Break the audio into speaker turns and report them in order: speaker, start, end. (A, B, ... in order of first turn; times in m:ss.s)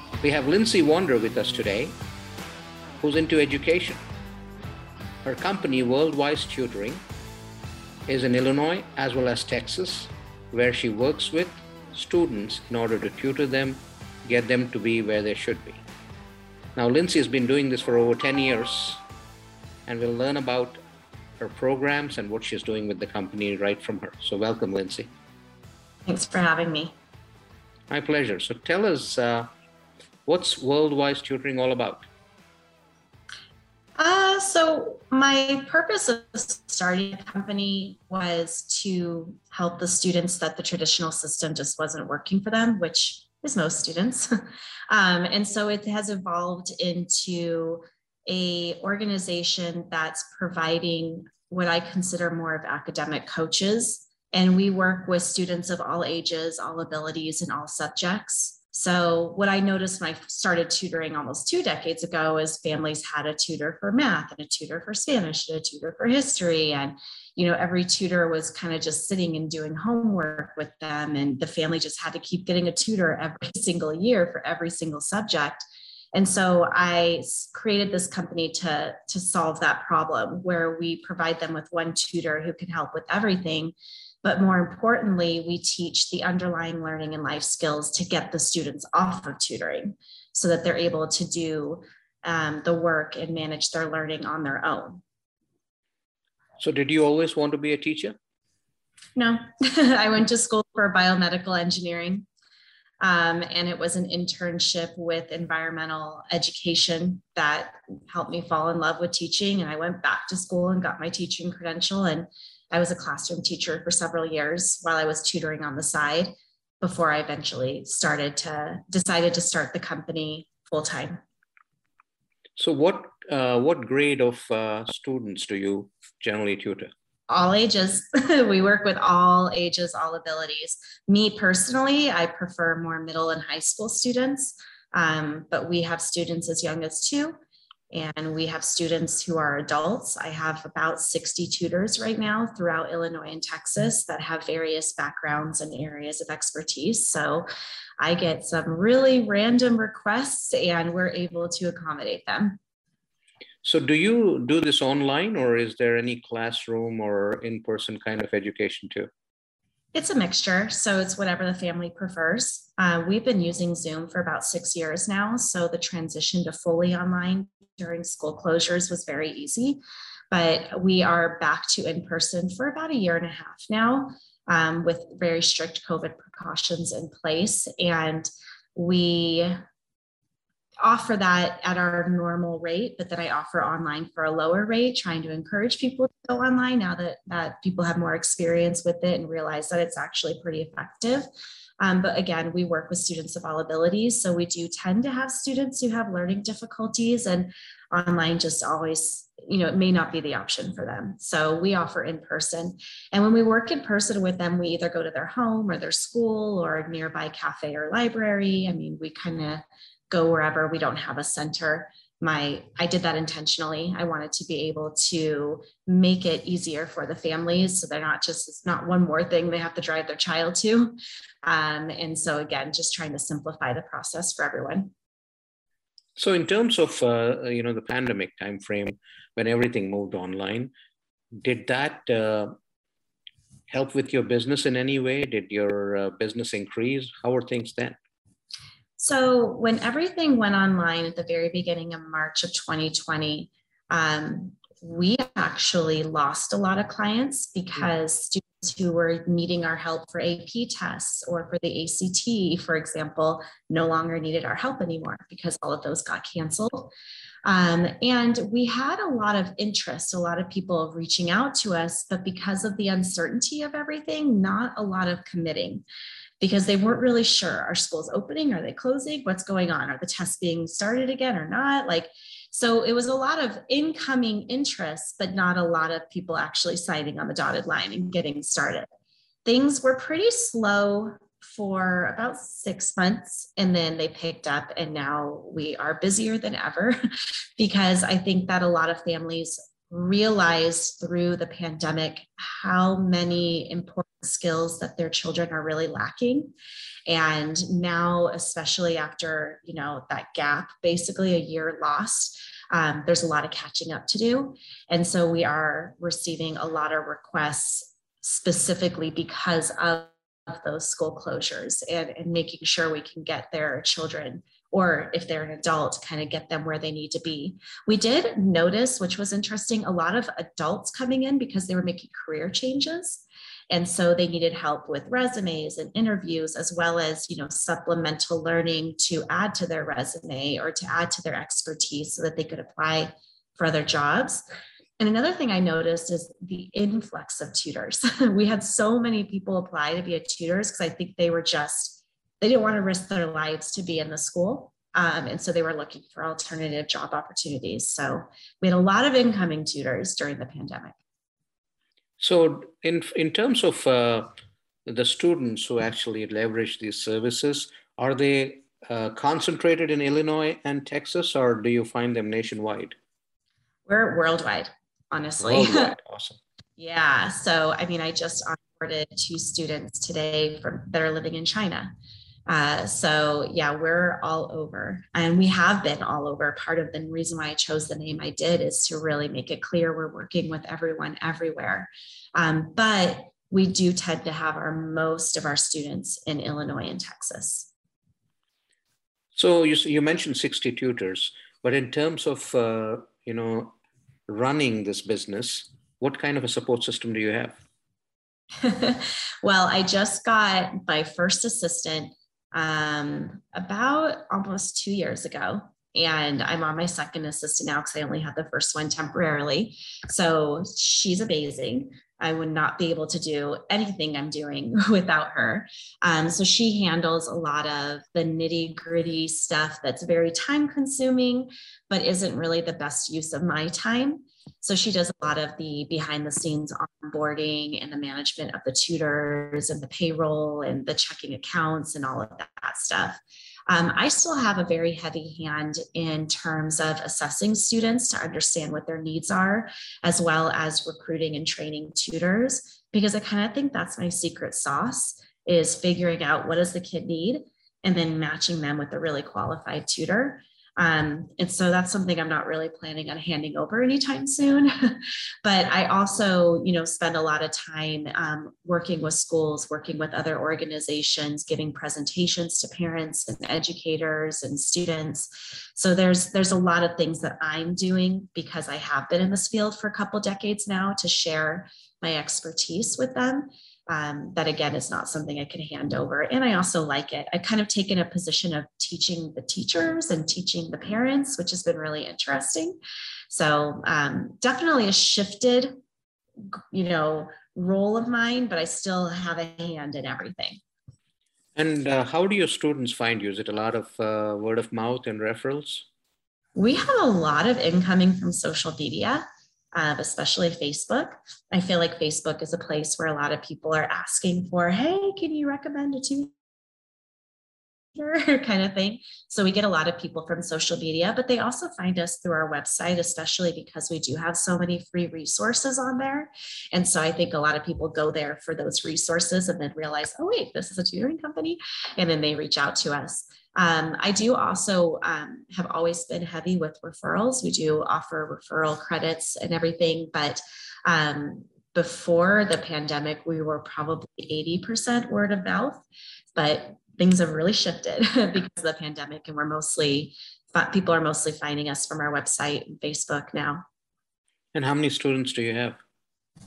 0:00.2-0:02.0 A
0:03.0-0:04.0 A
0:05.2-0:07.0 A
0:08.1-0:15.8 A
0:16.8-0:19.0 A
0:19.8-0:20.8 A
0:21.4-0:25.1 A
0:26.0-0:26.9 B
0:27.9-0:29.5 A
0:30.2-0:32.1 A
0:34.0-0:44.3 B
0:44.9-1:35.0 B
1:36.6-1:38.2 A
1:39.2-1:42.2 B
1:43.0-2:01.2 B
2:02.6-2:06.9 A
2:07.3-2:17.4 B
2:17.9-2:27.5 B
2:28.0-2:32.6 B
2:33.6-2:39.1 A
2:39.9-2:49.8 B
2:50.3-2:59.6 B
3:00.8-3:11.3 B
3:11.8-3:44.9 B
3:46.2-3:50.7 A
3:51.4-3:52.5 A
3:53.7-3:58.0 A
3:59.0-4:16.9 B
4:17.4-4:25.8 B
4:26.4-4:38.9 B
4:39.4-4:47.0 B
4:47.6-4:56.5 B
4:57.1-5:34.4 B
5:35.0-5:51.0 B
5:52.2-5:54.3 A
5:54.8-6:03.0 A
6:03.9-6:06.0 B
6:05.4-6:06.4 A
6:06.8-6:11.9 B
6:12.5-6:27.7 B
6:29.3-6:33.7 A
6:34.3-6:37.6 A
6:38.6-8:02.8 B
8:03.3-8:05.7 B
8:06.5-8:10.6 B
8:11.6-8:15.8 A
8:16.6-8:19.2 B
8:19.7-8:26.3 B
8:28.0-8:55.8 B
8:56.3-9:03.6 B
9:04.5-9:05.8 A